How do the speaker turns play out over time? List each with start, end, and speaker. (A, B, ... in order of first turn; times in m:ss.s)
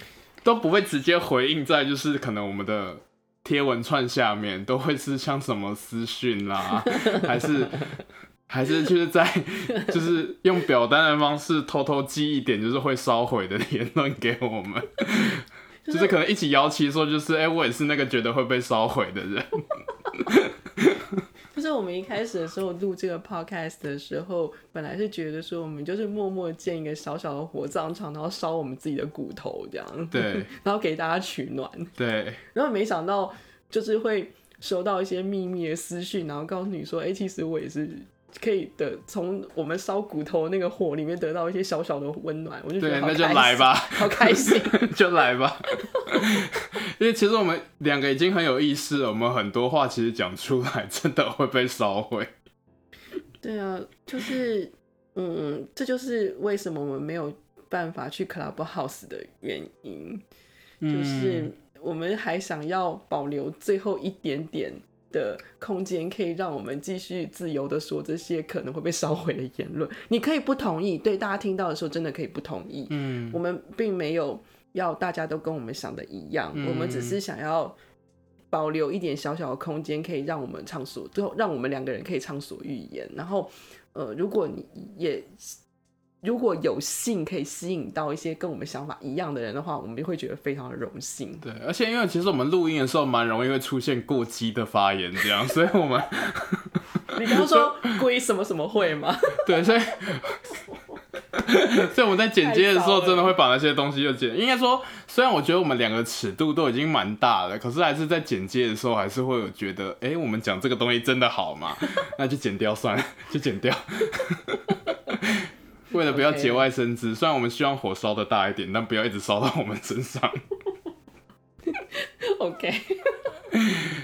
0:00.4-0:21.2 A
0:15.8-0:16.2 B
0:21.5-0:31.9 B
0:30.1-0:30.5 A
0:32.0-0:32.4 A
0:32.5-0:45.0 B
0:42.8-0:52.3 A
0:45.8-0:46.5 B
0:53.4-1:00.2 B
1:00.8-1:01.5 A
1:00.9-1:17.8 B
1:12.9-1:13.4 A
1:16.5-1:17.2 A
1:18.5-1:25.6 B
1:26.2-1:31.4 B
1:31.4-1:38.0 A
1:37.1-1:39.7 B
1:39.4-1:40.6 A
1:41.3-2:00.4 A
1:42.4-1:43.3 B
1:55.9-1:56.7 B
2:01.6-2:03.3 B